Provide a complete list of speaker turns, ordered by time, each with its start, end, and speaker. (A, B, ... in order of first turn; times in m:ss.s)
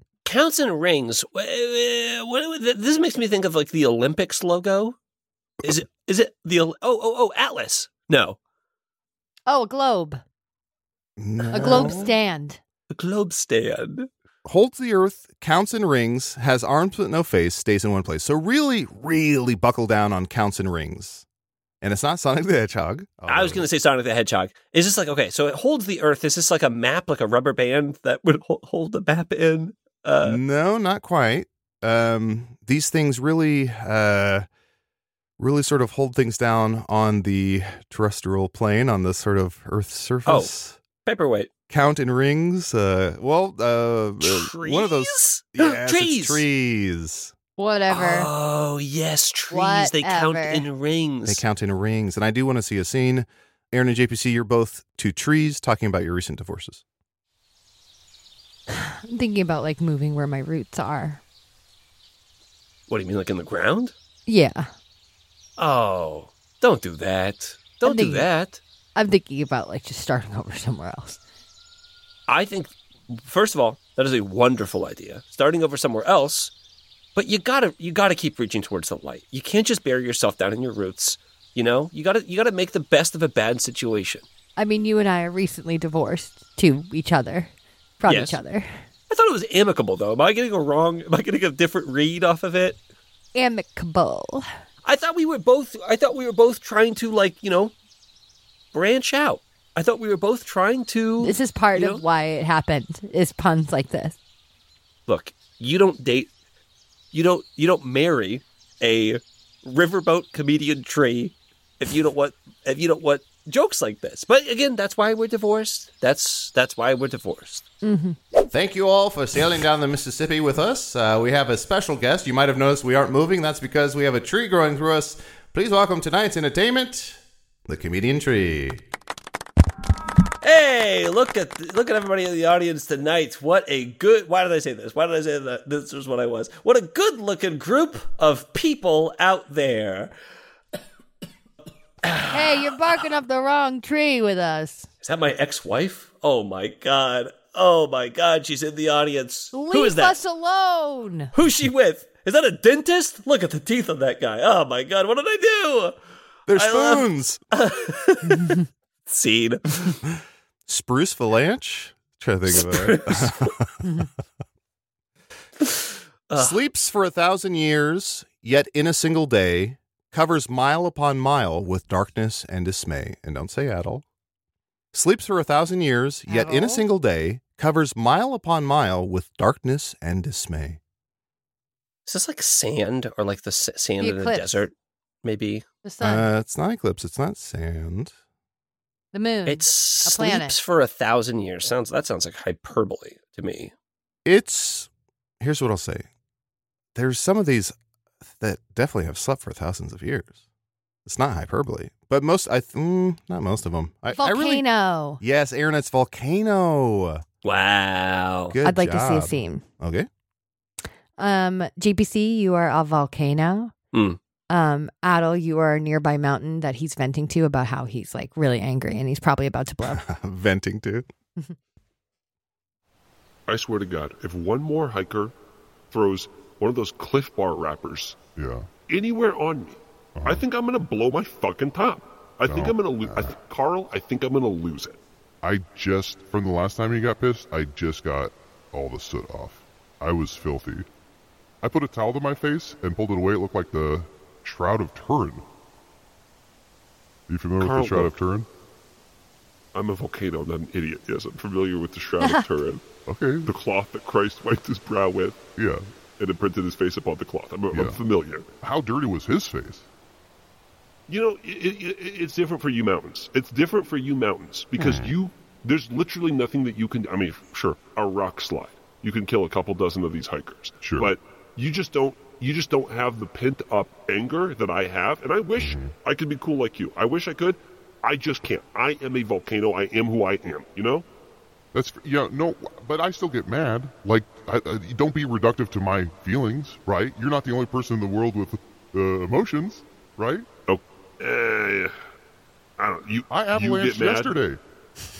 0:00.2-0:05.0 A
0:05.6-0:08.4 A
0:09.5-0:10.2 B
0:11.2-0:12.1 C
0:11.4-0:12.1 A
0:11.5-0:12.6 B
0:12.9-0:14.1 A
0:14.4-0:21.2 C
0:21.8-0:23.6 C
0:23.3-0:30.4 A
0:30.2-0:34.4 C
0:35.4-0:40.8 C
0:40.2-0:40.5 A
0:41.0-0:41.5 A
0:41.7-0:47.3 C
0:44.2-0:46.4 A
0:47.6-0:48.3 B
0:47.9-0:51.4 A
0:49.5-0:50.6 B
0:51.2-0:56.8 C
0:58.7-1:01.2 B
1:02.9-1:03.9 A
1:04.3-1:04.7 B
1:05.6-1:08.6 A
1:07.8-1:08.3 B
1:09.0-1:11.2 B
1:12.3-1:16.5 A
1:17.1-1:24.2 A
1:24.6-1:28.8 B
1:28.1-1:28.4 A
1:29.1-1:32.8 A
1:33.3-1:34.5 B
1:34.8-1:37.7 A
1:38.7-1:42.0 A
1:41.2-1:44.2 B
1:45.1-1:46.3 A
1:47.1-1:57.6 A
1:57.8-1:58.2 B
1:58.5-2:08.8 C
2:10.4-2:20.1 A
2:22.0-2:22.5 A
2:22.2-2:24.9 B
2:25.0-2:30.2 A
2:29.5-2:31.3 B
2:31.3-2:36.0 A
2:36.5-2:37.4 C
2:36.5-2:40.0 A
2:40.7-2:43.7 C
2:42.5-2:43.5 A
2:45.6-2:46.6 A
2:46.4-2:54.0 C
2:54.9-3:00.8 C
2:56.3-2:56.8 B
3:02.0-3:04.7 A
3:04.0-3:04.7 B
3:05.2-3:05.6 A
3:05.8-3:06.3 B
3:06.0-3:08.1 C
3:09.1-3:10.6 B
3:09.4-3:13.7 A
3:14.2-3:14.9 C
3:15.4-3:16.0 C
3:16.9-3:17.7 C
3:18.4-3:20.4 C
3:21.0-3:24.6 C
3:24.1-3:25.2 B
3:25.2-3:27.2 C
3:27.4-3:28.6 A
3:28.5-3:30.1 C
3:28.6-3:29.6 B
3:31.2-3:33.7 B
3:33.9-3:34.2 A
3:34.5-3:40.0 B
3:39.8-3:41.0 C
3:43.5-3:45.3 D
3:45.9-3:48.2 D
3:48.4-3:48.7 E
3:48.9-3:55.0 D
3:50.2-3:50.4 E
3:52.5-3:53.3 E
3:55.4-4:00.9 E
4:01.6-4:05.4 E
4:07.3-4:08.5 E
4:07.6-4:08.1 D
4:09.7-4:12.8 D
4:12.2-4:12.4 B
4:13.0-4:13.5 E
4:13.4-4:15.4 D
4:15.6-4:15.9 E
4:16.2-4:18.5 D
4:17.7-4:18.0 E
4:18.6-4:19.8 E
4:21.1-4:41.0 D
4:24.8-4:25.1 E
4:30.8-4:31.1 E
4:35.6-4:35.9 E
4:41.7-4:50.5 E
4:50.7-4:52.0 D
4:52.8-4:54.4 D
4:53.3-4:54.6 E